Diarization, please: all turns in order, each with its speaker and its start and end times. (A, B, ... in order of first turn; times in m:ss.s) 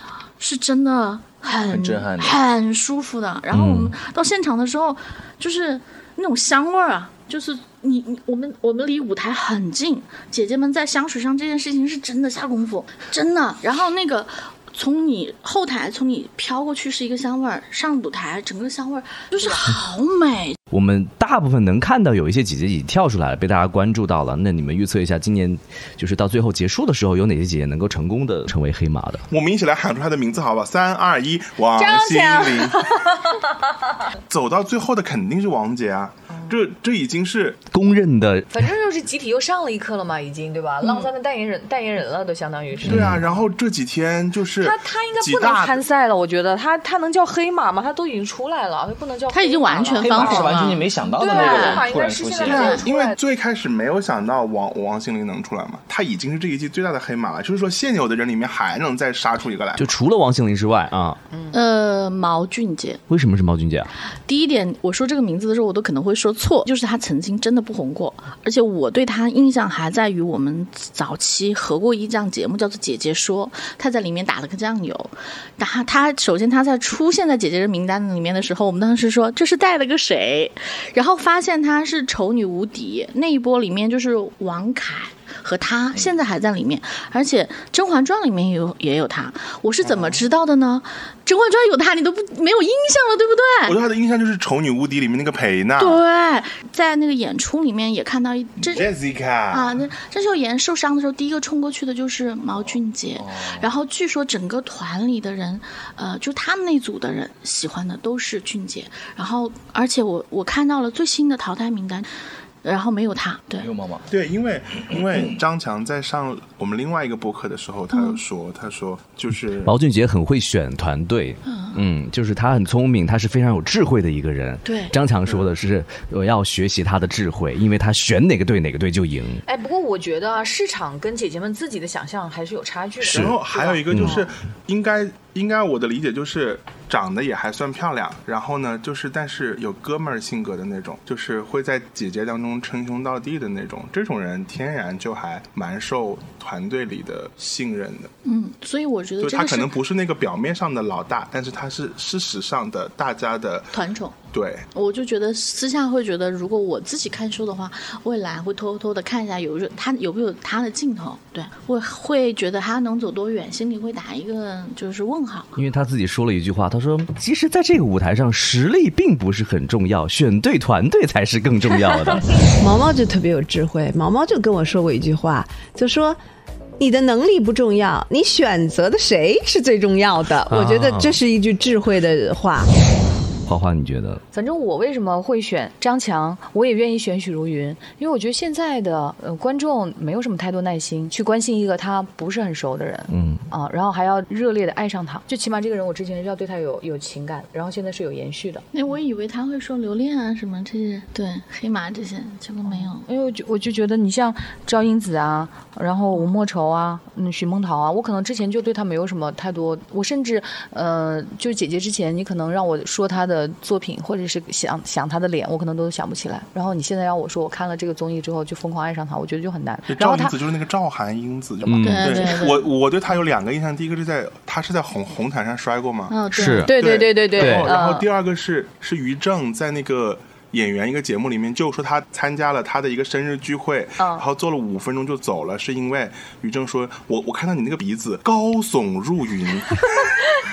0:00.4-0:20.6 A
0:01.7-0:02.4 B
0:03.5-0:04.0 C
0:20.7-0:29.2 C
0:29.3-0:33.2 D
0:31.8-0:33.4 E
0:34.3-0:37.6 D
0:37.7-0:38.6 C
0:38.5-0:43.1 E
0:42.8-0:43.2 C
0:42.9-0:45.8 D
0:44.6-0:53.2 E
0:49.3-0:51.9 A
0:50.0-0:52.8 B
0:52.5-0:52.8 A
0:52.6-0:59.9 D
0:59.8-1:01.2 C
1:01.5-1:03.0 A
1:03.1-1:03.9 C
1:04.3-1:33.8 A
1:29.9-1:30.2 D
1:33.7-1:36.0 D
1:35.8-1:38.9 A
1:38.6-1:39.9 D
1:39.5-1:52.1 A
1:42.5-1:43.7 B
1:52.6-1:53.7 A
1:53.6-1:54.1 B
1:54.1-1:59.8 D
1:54.9-1:55.4 B
1:57.9-1:58.2 A
1:59.6-2:09.4 C
2:01.4-2:01.8 A
2:04.6-2:05.0 A
2:09.5-2:14.2 E
2:13.0-2:28.1 D
2:13.9-2:14.2 C
2:28.2-2:29.8 A
2:29.2-2:33.7 D
2:33.7-2:34.2 A
2:34.3-2:34.7 D
2:34.7-2:45.5 A
2:45.6-2:52.3 C
2:52.3-2:56.2 F
2:56.8-3:02.7 F
3:00.5-3:01.2 C
3:03.5-3:04.2 C
3:04.3-3:18.6 E
3:13.1-3:13.4 C
3:18.7-3:23.1 A
3:22.6-3:40.4 E
3:39.9-4:00.2 D
3:41.6-3:42.3 C
3:41.8-3:42.7 A
3:46.1-3:46.7 A
3:46.3-3:46.8 C
3:46.6-3:48.1 E
3:47.4-3:47.8 C
3:54.0-3:54.2 E